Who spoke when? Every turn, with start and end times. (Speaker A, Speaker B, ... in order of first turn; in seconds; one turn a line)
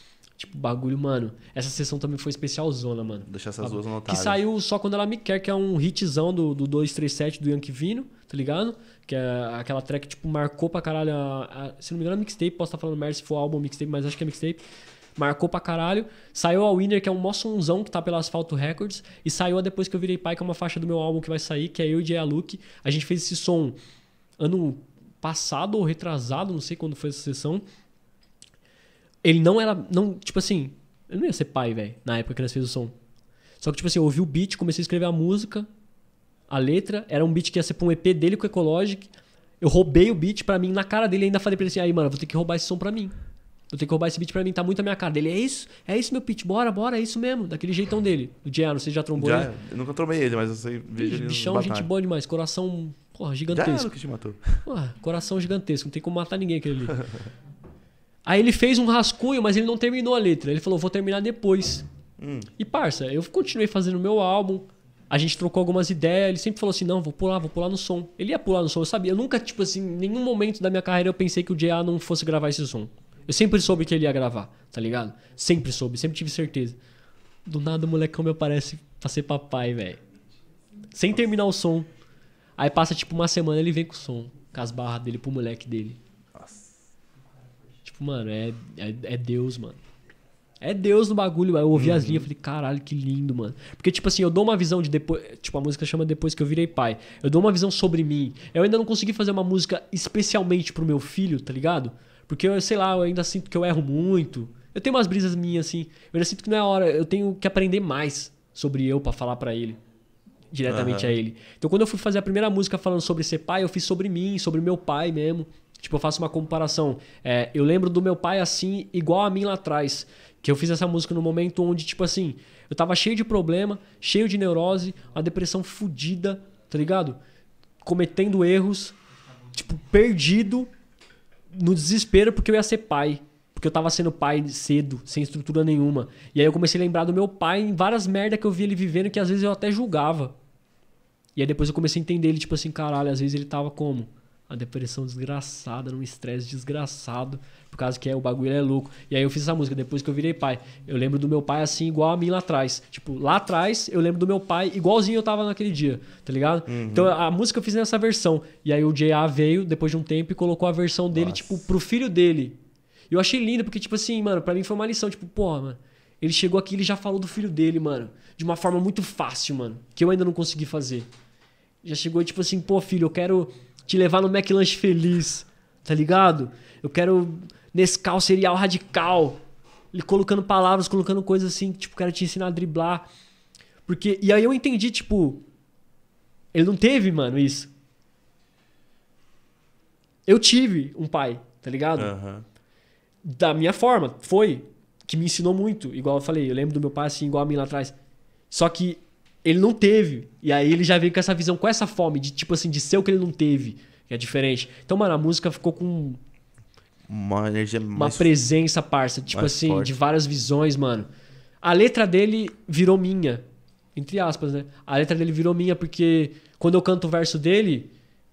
Speaker A: 0.4-14.6
Speaker B: 3.3-4.4
Speaker A: 15.2-23.8
Speaker A: 24.4-27.6
Speaker A: 29.2-32.9
Speaker A: 33.6-35.7
Speaker A: 36.5-39.1
Speaker A: 39.6-43.1
Speaker A: 43.7-49.5
Speaker B: 49.2-51.9
Speaker A: 51.0-53.9
Speaker B: 53.5-54.6
Speaker A: 54.6-57.0
Speaker A: 58.2-61.8
Speaker B: 62.2-62.5
Speaker A: 62.6-76.8
Speaker A: 77.5-80.0
Speaker A: 80.9-81.9
Speaker A: 82.6-86.0
Speaker B: 86.3-86.7
Speaker A: 87.8-89.8
Speaker A: 90.6-109.8
Speaker B: 91.7-92.3
Speaker A: 110.5-127.2
Speaker B: 110.7-111.1
Speaker A: 127.8-128.9
Speaker A: 129.5-130.7
Speaker A: 131.5-140.3
Speaker A: 141.3-162.6
Speaker B: 156.7-157.2
Speaker B: 161.1-161.7
Speaker A: 163.1-171.1
Speaker A: 171.8-179.4
Speaker A: 179.9-183.1
Speaker A: 183.8-185.4
Speaker A: 186.5-187.7
Speaker A: 190.3-192.1
Speaker B: 191.9-192.4
Speaker A: 193.2-197.9
Speaker A: 198.5-206.2
Speaker B: 207.1-208.3
Speaker A: 207.9-211.1
Speaker B: 209.3-209.9
Speaker A: 211.6-217.9